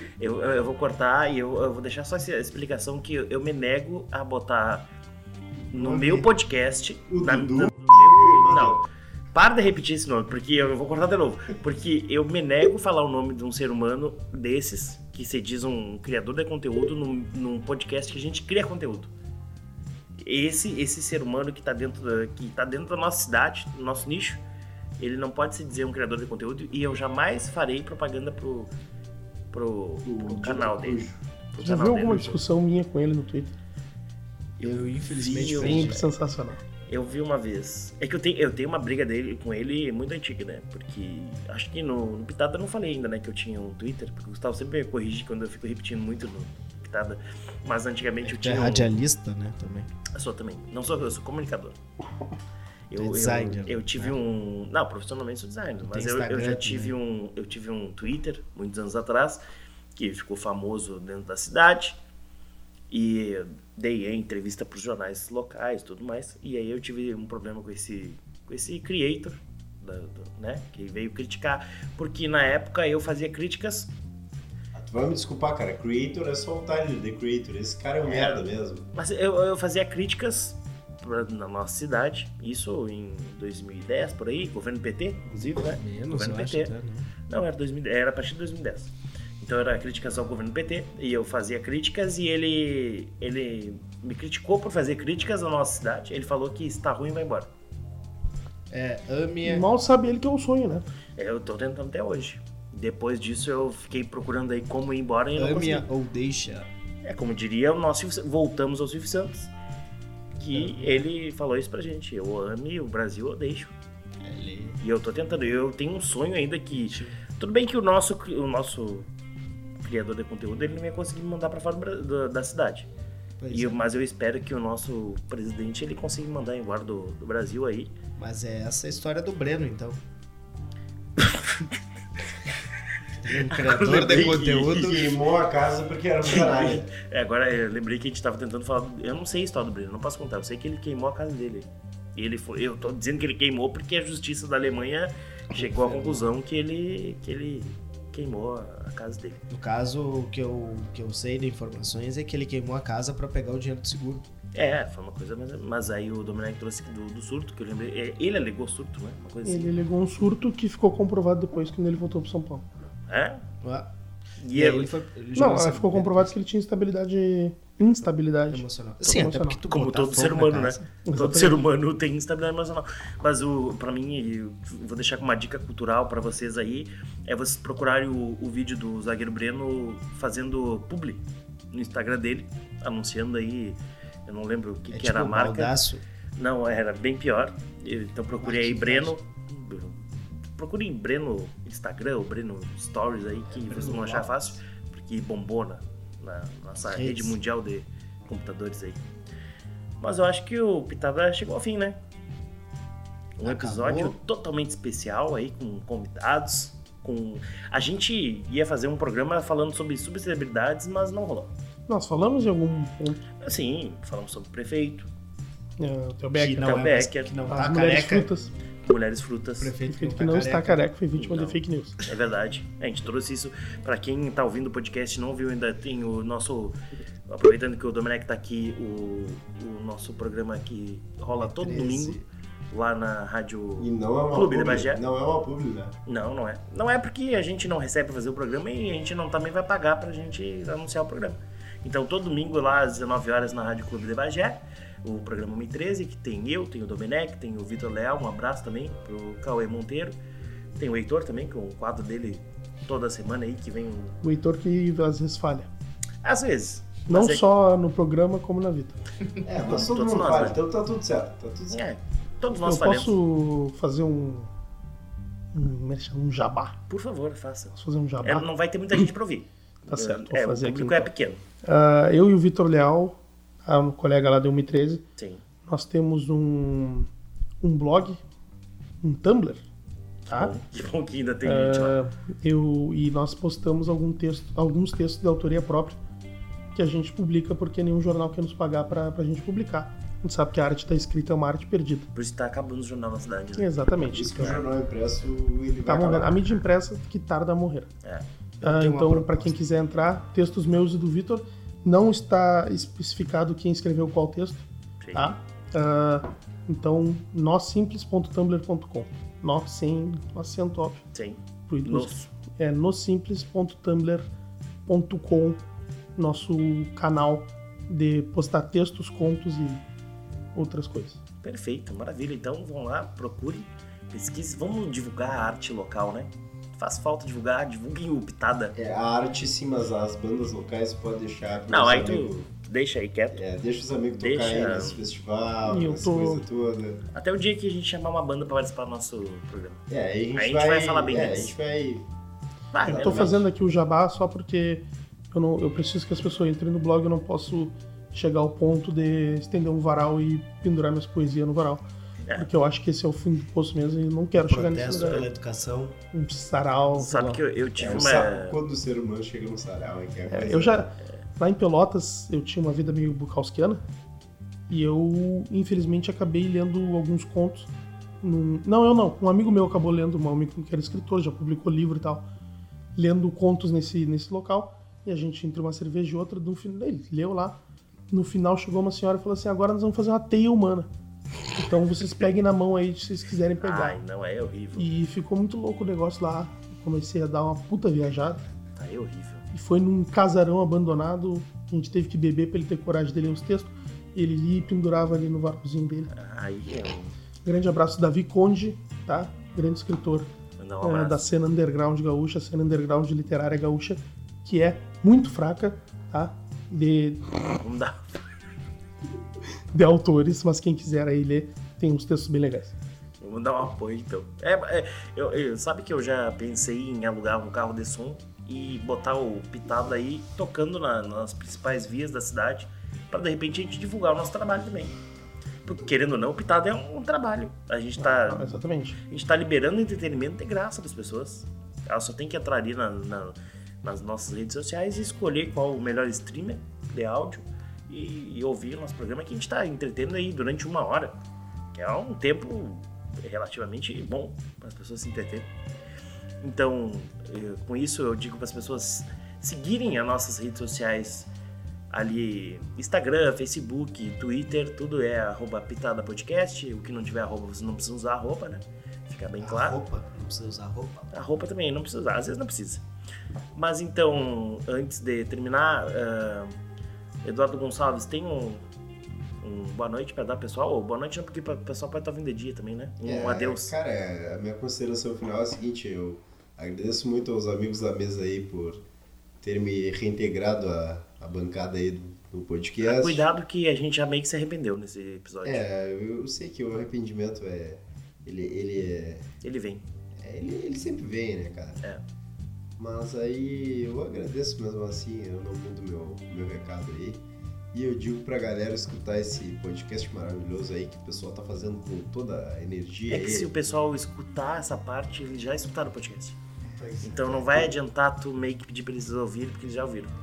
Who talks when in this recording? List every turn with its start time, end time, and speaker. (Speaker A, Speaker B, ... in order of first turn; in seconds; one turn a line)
Speaker A: 0.2-4.9
Speaker A: 5.7-8.8
Speaker B: 5.7-6.3
Speaker C: 7.1-8.8
Speaker A: 9.3-19.1
Speaker A: 20.2-24.4
Speaker A: 25.0-28.7
Speaker A: 29.5-32.4
Speaker C: 30.1-31.2
Speaker D: 31.6-33.5
Speaker B: 34.6-36.0
Speaker A: 35.1-36.0
Speaker D: 35.5-36.6
Speaker A: 36.9-49.0
Speaker B: 48.2-49.9
Speaker A: 50.1-51.8
Speaker A: 52.9-59.4
Speaker B: 53.0-54.2
Speaker B: 55.9-56.9
Speaker A: 60.0-62.0
Speaker A: 62.9-73.9
Speaker C: 74.7-78.9
Speaker A: 78.0-86.7
Speaker B: 85.5-87.1
Speaker A: 87.3-97.5
Speaker B: 98.7-99.7
Speaker D: 99.4-100.8
Speaker A: 101.2-105.9
Speaker B: 105.4-106.7
Speaker A: 107.0-109.5
Speaker A: 110.4-113.7
Speaker B: 110.5-111.1
Speaker B: 114.2-114.8
Speaker A: 114.8-119.1
Speaker B: 116.7-117.2
Speaker A: 119.8-122.9
Speaker B: 123.4-123.8
Speaker A: 123.5-127.9
Speaker B: 128.2-130.0
Speaker A: 131.2-131.7
Speaker B: 133.2-135.1
Speaker A: 133.5-135.0
Speaker C: 134.2-136.9
Speaker A: 136.2-149.4
Speaker B: 145.5-146.3
Speaker B: 149.5-154.2
Speaker A: 154.5-159.7
Speaker D: 159.4-162.6
Speaker A: 163.1-163.4
Speaker B: 163.6-163.9
Speaker A: 164.4-164.9
Speaker B: 164.5-166.3
Speaker D: 165.3-169.6
Speaker B: 168.5-170.9
Speaker A: 169.1-185.8
Speaker D: 171.1-171.6
Speaker B: 184.9-186.0
Speaker A: 186.4-199.0
Speaker B: 188.4-189.2
Speaker B: 193.5-194.5
Speaker B: 196.8-197.4
Speaker A: 200.0-202.0
Speaker A: 203.4-211.5
Speaker B: 203.4-204.2
Speaker D: 211.9-213.2
Speaker A: 213.4-215.1
Speaker D: 215.8-216.9
Speaker B: 216.3-218.3
Speaker A: 216.6-217.3
Speaker D: 217.5-218.5
Speaker A: 218.8-219.8
Speaker B: 219.6-220.8
Speaker D: 219.8-222.0
Speaker A: 221.2-226.8
Speaker A: 227.3-235.0
Speaker B: 231.3-232.2
Speaker C: 233.8-236.0
Speaker A: 236.1-250.2
Speaker A: 250.8-254.2
Speaker D: 254.2-255.7
Speaker A: 256.2-257.4
Speaker D: 257.1-259.0
Speaker C: 259.4-261.8
Speaker A: 259.6-260.6
Speaker A: 261.7-263.2
Speaker D: 262.6-264.5
Speaker D: 265.5-266.8
Speaker A: 266.9-271.4
Speaker D: 267.8-269.1
Speaker D: 269.9-271.1
Speaker D: 271.6-275.0
Speaker D: 275.7-277.1
Speaker D: 277.6-278.2
Speaker D: 279.0-279.6
Speaker A: 280.3-282.0
Speaker D: 281.4-286.0
Speaker D: 286.8-292.1
Speaker A: 292.1-293.7
Speaker D: 293.6-294.6
Speaker C: 294.0-296.4
Speaker A: 294.4-294.6
Speaker D: 295.9-297.9
Speaker B: 298.6-299.6
Speaker D: 298.6-311.0
Speaker A: 305.0-305.3
Speaker A: 311.1-312.3
Speaker D: 311.7-314.3
Speaker D: 314.9-315.6
Speaker D: 316.2-319.8
Speaker D: 320.6-321.2
Speaker A: 321.4-328.7
Speaker C: 328.8-332.5
Speaker A: 331.7-333.4
Speaker C: 333.3-337.0
Speaker A: 334.2-335.0
Speaker D: 335.6-336.4
Speaker A: 337.1-339.8
Speaker C: 339.9-342.1
Speaker A: 340.3-341.5
Speaker A: 342.7-343.4
Speaker C: 342.9-343.4
Speaker D: 342.9-351.8
Speaker D: 352.4-355.3
Speaker B: 354.4-356.0
Speaker D: 356.1-357.4
Speaker A: 356.9-358.6
Speaker C: 357.8-360.9
Speaker D: 360.3-363.8
Speaker D: 364.7-367.7
Speaker D: 368.2-372.3
Speaker D: 373.0-377.6
Speaker D: 378.1-380.9
Speaker D: 381.5-384.0
Speaker A: 383.6-384.9
Speaker D: 384.8-388.4
Speaker A: 388.8-389.4
Speaker D: 389.5-396.1
Speaker A: 396.1-397.1
Speaker D: 397.4-400.3
Speaker A: 400.6-401.3
Speaker D: 400.8-407.5
Speaker A: 407.6-408.2
Speaker D: 409.7-412.8
Speaker A: 413.2-424.9
Speaker A: 425.6-441.2
Speaker D: 428.0-429.0
Speaker A: 441.7-445.5
Speaker A: 446.4-451.3
Speaker A: 451.9-459.8
Speaker B: 459.4-461.1
Speaker A: 461.1-462.8
Speaker A: 463.6-466.6
Speaker A: 467.2-468.6
Speaker A: 469.4-473.8
Speaker C: 473.0-478.8
Speaker C: 479.4-483.3
Speaker A: 482.8-485.6
Speaker C: 485.4-489.3
Speaker A: 489.4-489.8
Speaker C: 490.2-491.8
Speaker C: 492.8-503.5
Speaker A: 503.1-506.4
Speaker B: 506.8-507.4
Speaker A: 507.0-510.1
Speaker C: 507.0-507.7